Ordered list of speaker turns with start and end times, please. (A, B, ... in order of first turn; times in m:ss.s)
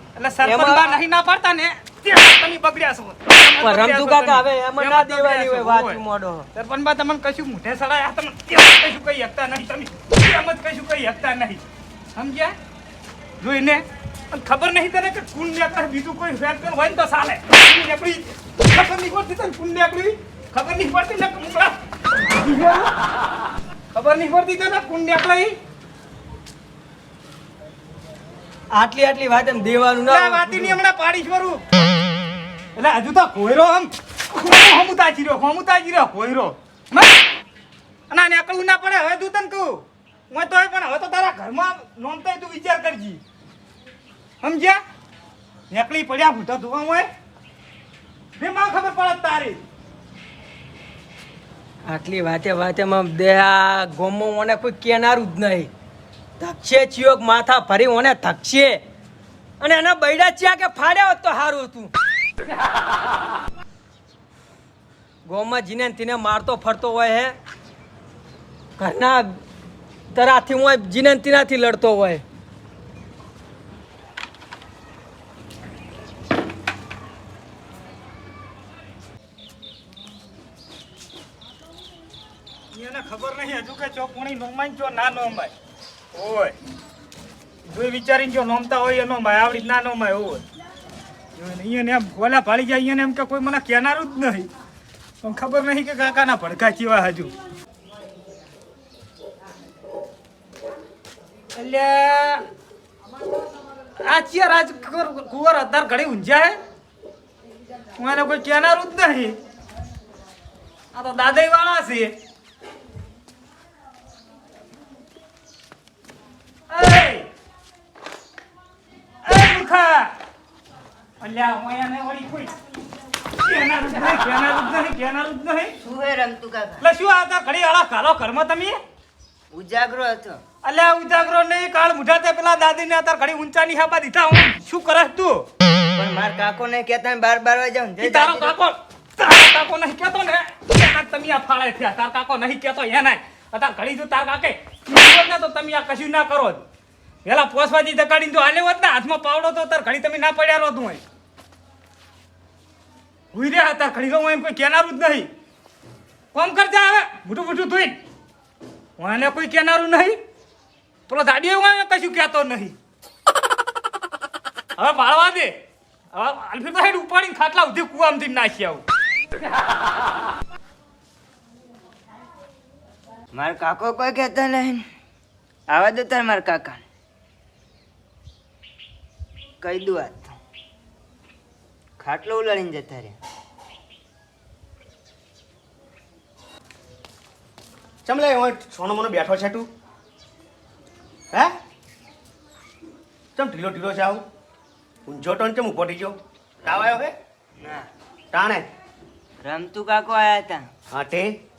0:00.2-0:06.0 A
0:00.4-0:01.0 B
0:03.6-0:06.5 B
0:06.5-0:11.6 A
0:12.1-0:12.5 A
0:13.4-0:22.9 A
0:23.9-0:25.5 A
0:28.7-0:30.8 B
0:30.1-0:31.6 A
0:32.8-0:37.1 A
0:38.1-0:43.2 A
0:44.4-0:44.8 A
0:45.7-0:47.1 A
0:48.4-0:49.6 A
0:51.8-0:55.7 B
0:56.4-0:58.8 B
0:59.6-1:01.9 B
1:05.2-1:07.3 B
1:08.8-1:09.4 B
1:10.1-1:12.2 B
1:22.7-1:25.5 A
1:26.1-1:26.6 A
1:27.7-1:30.4 A
1:31.4-1:34.5 A
1:35.2-1:37.3 A
1:41.5-1:42.4 A
1:44.0-1:46.6 A
1:48.0-1:49.4 A
1:50.9-1:52.1 A
1:56.7-1:57.3 A
1:59.2-2:00.1 A
2:01.2-2:02.5 A
2:03.4-2:05.8 A
2:05.8-2:06.8 C
2:06.8-2:08.8 A
2:09.5-2:10.4 C
2:10.6-2:15.5 A
2:16.0-2:18.5 C
2:18.0-2:26.6 A
2:27.2-2:31.0 A
2:33.3-2:35.3 A
2:36.3-2:38.0 A
2:39.0-2:40.2 A
2:41.1-2:42.8 A
2:44.8-2:45.6 A
2:46.1-2:48.8 A
2:53.3-2:54.8 C
2:55.7-2:56.8 C
2:59.6-3:00.3 C
3:02.0-3:03.1 C
3:08.0-3:09.7 D
3:13.4-3:14.2 D
3:15.1-3:17.1 D
3:17.6-3:17.9 C
3:18.3-3:18.7 D
3:19.4-3:20.7 C
3:20.9-3:21.3 D